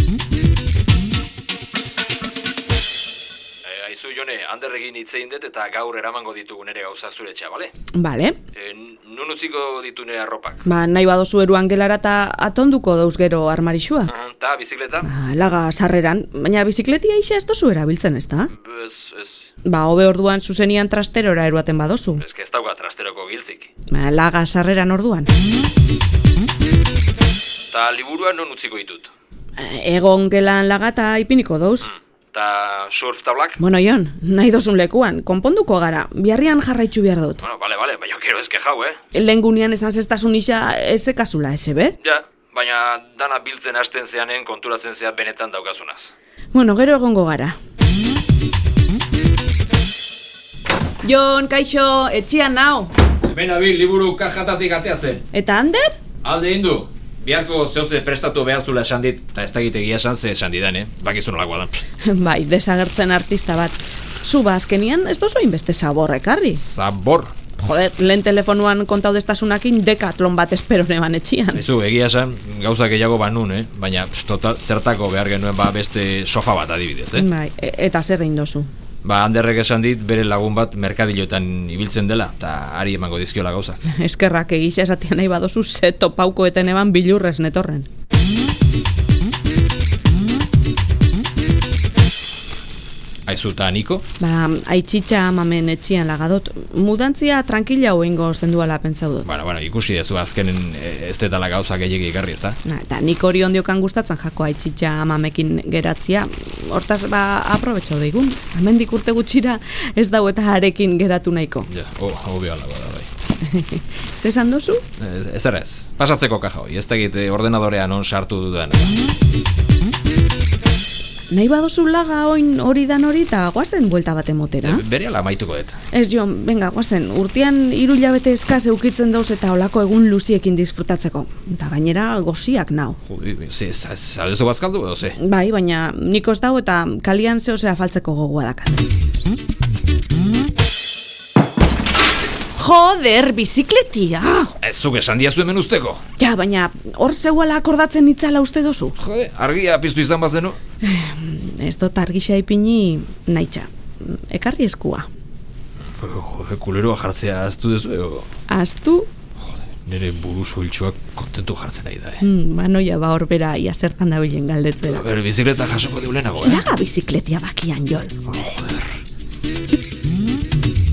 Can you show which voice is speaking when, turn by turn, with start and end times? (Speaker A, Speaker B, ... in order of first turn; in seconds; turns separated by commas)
Speaker A: 3.6-7.7, Speaker B: 8.0-8.4, Speaker A: 8.5-10.6, Speaker B: 10.7-14.1, Speaker A: 14.0-15.1, Speaker B: 15.0-18.5, Speaker A: 18.5-19.4, Speaker B: 19.6-22.2, Speaker A: 22.2-23.7, Speaker B: 23.9-25.3, Speaker A: 27.7-29.1, Speaker B: 29.6-31.9, Speaker A: 31.8-33.6, Speaker B: 33.6-37.4, Speaker A: 37.4-39.0, Speaker B: 39.1-42.0, Speaker A: 42.0-46.1, Speaker B: 46.5-47.6, Speaker B: 51.0-52.9, Speaker A: 53.3-55.2, Speaker B: 55.3-56.0, Speaker A: 56.2-61.8, Speaker B: 62.0-66.6, Speaker A: 66.6-67.3, Speaker B: 67.6-71.7, Speaker A: 71.5-77.3, Speaker B: 77.1-78.7, Speaker A: 79.0-83.8, Speaker B: 83.8-87.9, Speaker A: 93.3-94.0, Speaker B: 94.2-99.3, Speaker A: 99.2-102.6, Speaker B: 102.6-111.7, Speaker A: 111.7-113.1, Speaker B: 113.4-114.8, Speaker A: 115.0-119.0, Speaker B: 121.3-124.8, Speaker A: 124.6-125.8, Speaker B: 125.9-133.0, Speaker A: 133.1-135.2, Speaker B: 135.2-138.9, Speaker B: 142.6-144.6, Speaker A: 144.6-146.0, Speaker B: 146.2-148.9, Speaker A: 149.0-150.6, Speaker B: 150.8-155.1, Speaker A: 156.0-158.3, Speaker B: 158.5-159.1, Speaker A: 159.4-162.2, Speaker B: 162.2-165.0, Speaker A: 164.8-166.7, Speaker B: 166.4-168.2, Speaker A: 168.3-169.0